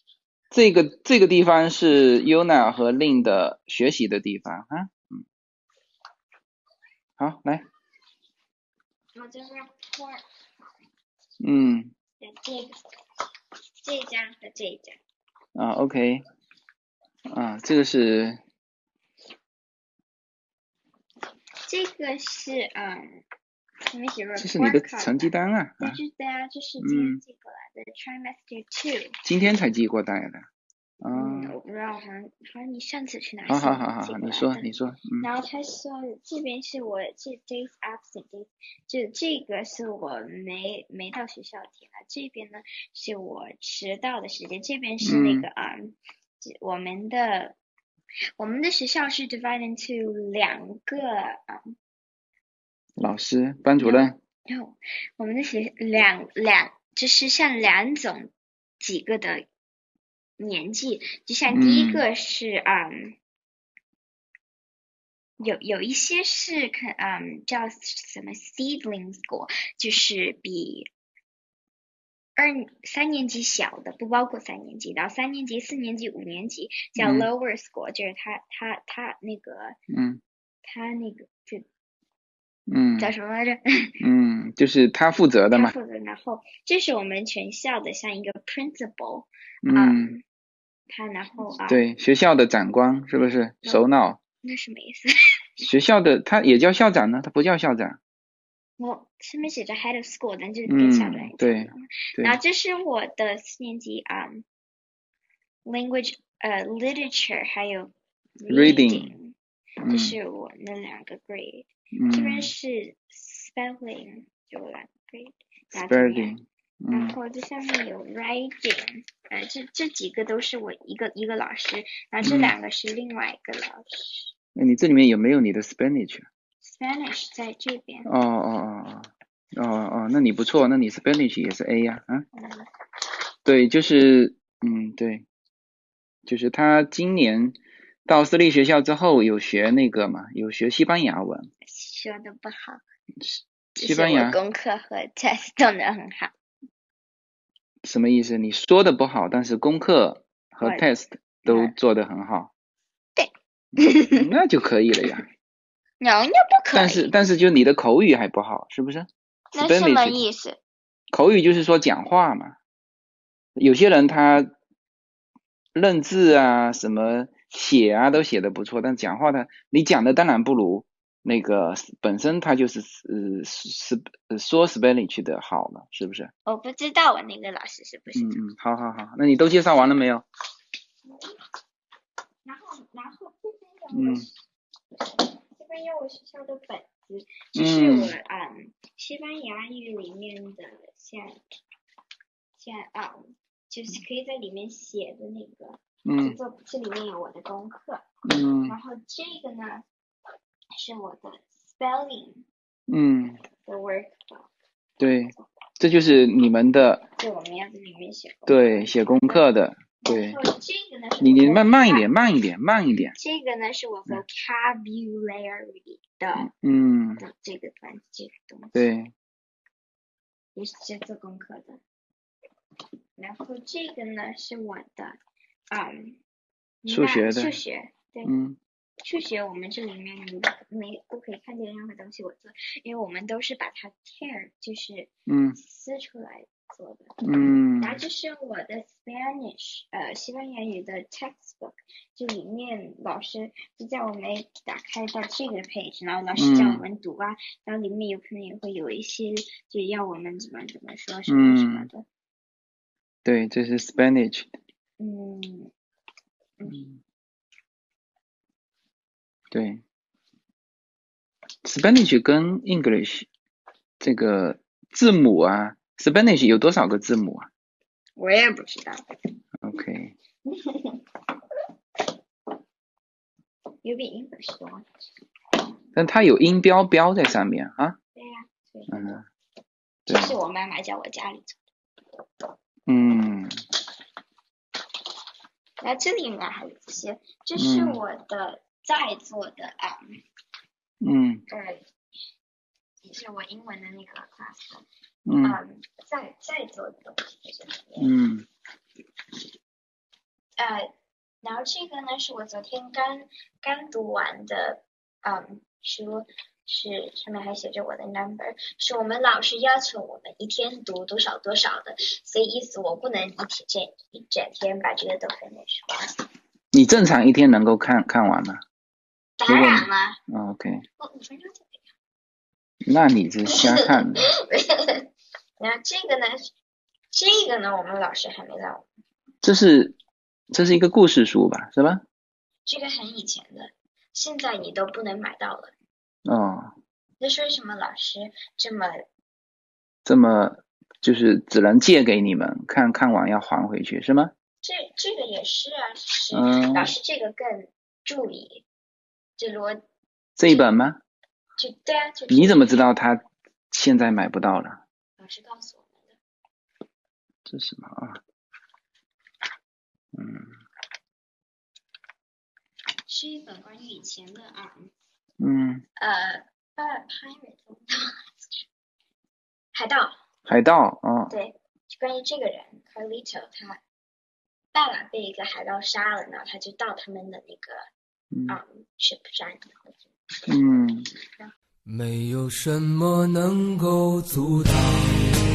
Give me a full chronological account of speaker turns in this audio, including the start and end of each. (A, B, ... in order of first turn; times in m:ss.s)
0:00.5-0:05.2 A
0:07.2-0:07.7 A
0:09.2-0:10.2 B
0:11.4-0:11.9 A
0:12.2-0:12.8 B
0:13.8-0:15.0 B
0:15.6-0:16.2 A
0:17.3-0:18.4 A
0:21.6-0:23.2 B
0:23.9-0:29.2 B
0:24.4-0:26.0 A
0:26.8-0:27.2 A
0:29.2-0:30.4 A
0:31.0-0:31.6 A
0:31.1-0:47.6 B
0:33.5-0:35.3 A
0:45.0-0:45.5 A
0:48.4-0:51.6 B
0:53.0-0:54.2 A
0:53.8-0:59.5 B
1:00.4-1:03.2 B
1:01.5-1:02.0 A
1:05.4-1:10.9 B
1:12.4-1:19.8 B
1:17.0-1:17.3 A
1:19.9-1:20.2 A
1:20.6-1:21.6 B
1:22.7-1:23.1 A
1:23.0-1:24.0 B
1:24.0-1:25.8 A
1:25.5-1:30.2 B
1:29.6-1:30.2 A
1:30.9-1:31.8 B
1:31.7-1:34.2 A
1:34.4-1:35.1 B
1:35.6-1:38.0 A
1:38.8-1:44.4 B
1:40.7-1:42.4 A
1:45.6-1:49.4 B
1:48.5-1:49.1 A
1:49.8-1:50.2 A
1:49.9-1:56.4 B
1:52.0-1:52.5 A
1:55.7-1:57.1 A
1:56.9-2:04.3 B
2:02.2-2:02.5 A
2:04.6-2:06.3 A
2:06.6-2:08.1 B
2:08.1-2:12.2 A
2:12.3-2:12.6 B
2:13.4-2:15.3 A
2:16.3-2:21.5 A
2:21.6-2:22.8 B
2:23.2-2:24.4 A
2:23.8-2:26.3 B
2:27.8-2:32.5 A
2:30.6-2:30.9 B
2:31.5-2:31.8 B
2:33.2-2:34.3 B
2:33.8-2:35.3 A
2:36.0-2:37.1 B
2:36.7-2:40.2 A
2:39.5-2:40.6 B
2:41.1-2:42.6 A
2:43.6-2:44.5 A
2:45.8-2:56.3 A
2:56.5-2:58.4 B
2:58.2-3:00.2 A
3:01.0-3:01.4 B
3:02.4-3:04.3 B
3:04.0-3:04.2 A
3:04.9-3:11.4 B
3:07.6-3:08.1 A
3:12.6-3:18.0 B
3:16.0-3:16.4 A
3:18.3-3:18.8 A
3:18.6-3:19.8 B
3:20.8-3:22.4 B
3:22.9-3:23.4 A
3:23.6-3:24.5 B
3:25.0-3:27.0 A
3:25.1-3:25.4 B
3:27.2-3:29.4 B
3:28.5-3:30.4 A
3:30.0-3:32.1 B
3:31.2-3:33.1 A
3:33.2-3:36.5 B
3:36.4-3:37.2 A
3:37.2-3:38.8 B
3:38.7-3:39.1 A
3:40.6-3:41.8 B
3:43.2-3:45.2 B
3:45.7-3:46.2 B
3:46.8-3:48.3 B
3:46.9-3:47.6 A
3:48.2-3:48.6 A
3:49.0-4:12.0 B
3:55.3-3:55.6 A
3:57.2-3:58.0 A
4:06.4-4:06.8 A
4:11.3-4:11.9 A
4:13.2-4:14.5 A
4:15.0-4:15.7 B
4:16.6-4:16.9 B
4:19.5-4:19.8 A
4:21.6-4:23.3 A
4:24.0-4:27.5 A
4:28.2-4:29.0 B
4:29.6-4:30.2 A
4:30.5-4:31.0 B
4:33.8-4:34.9 B
4:36.0-4:38.0 A
4:38.2-4:39.2 B
4:38.9-4:39.2 A
4:40.1-4:41.6 B
4:40.1-4:40.4 A
4:42.9-4:43.6 A
4:45.8-4:50.2 B
4:47.6-4:48.0 A
4:51.0-4:51.4 A
4:51.5-4:51.8 B
4:53.0-4:54.9 B
4:55.3-4:55.6 A
4:55.4-4:58.2 B
4:58.0-4:58.5 A
5:00.6-5:00.9 B
5:01.4-5:16.2 B
5:16.7-5:18.6 A
5:19.4-5:20.2 B
5:19.5-5:20.8 A
5:21.0-5:21.8 B
5:22.8-5:24.3 A
5:23.5-5:26.5 B
5:27.1-5:28.9 B
5:29.4-5:30.0 A
5:30.5-5:32.0 A
5:32.6-5:35.7 B
5:36.3-5:36.8 A
5:37.2-5:39.1 B
5:40.0-5:44.3 A
5:44.6-5:48.6 B
5:46.3-5:46.9 A
5:49.4-5:49.8 B
5:50.4-5:51.0 A
5:51.6-5:52.9 B
5:52.3-5:54.8 A
5:55.2-5:56.2 B
5:57.5-5:58.2 A
6:00.1-6:00.5 A
6:03.1-6:04.9 B
6:05.4-6:05.8 A
6:06.0-6:08.6 B
6:09.7-6:10.1 B
6:10.5-6:11.3 A
6:11.3-6:13.8 B
6:14.7-6:17.8 B
6:18.3-6:18.6 A
6:18.5-6:20.1 B
6:20.5-6:21.1 A
6:22.0-6:25.1 C